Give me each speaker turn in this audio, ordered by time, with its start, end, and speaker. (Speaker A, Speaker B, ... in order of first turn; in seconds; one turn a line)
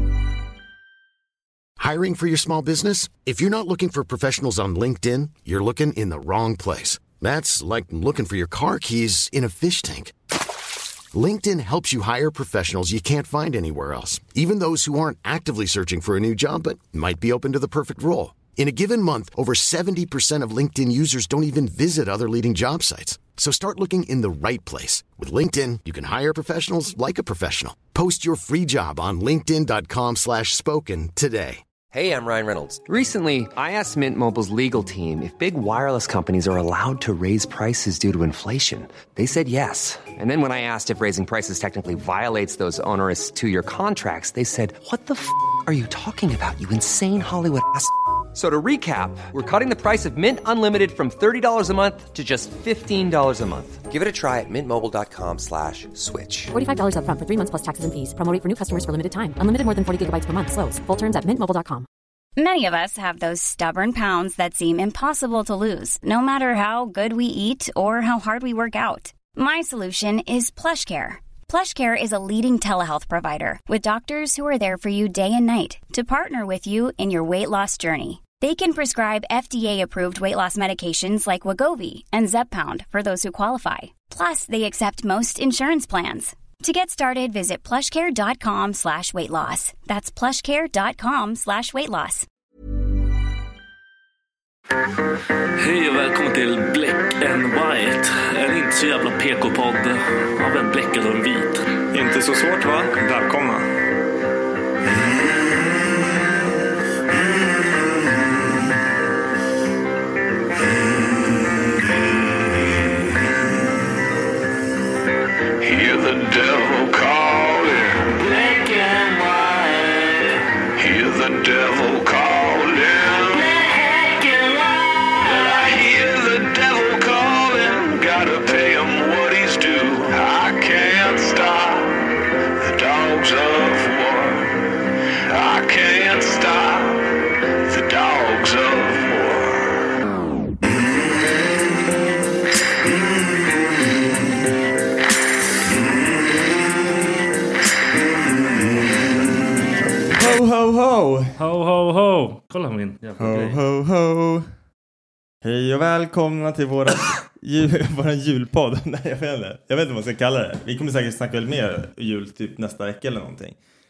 Speaker A: 1.8-10.1
Speaker A: 11.1-31.6
Speaker B: 31.9-56.5
Speaker C: 56.5-61.9
Speaker D: 62.4-92.2
Speaker E: 95.5-101.7
Speaker F: 101.9-103.6
Speaker G: 115.6-134.6
Speaker G: 135.2-139.9
Speaker F: 150.1-151.4
Speaker E: 151.4-153.6
Speaker F: 153.2-154.4
Speaker F: 155.4-163.6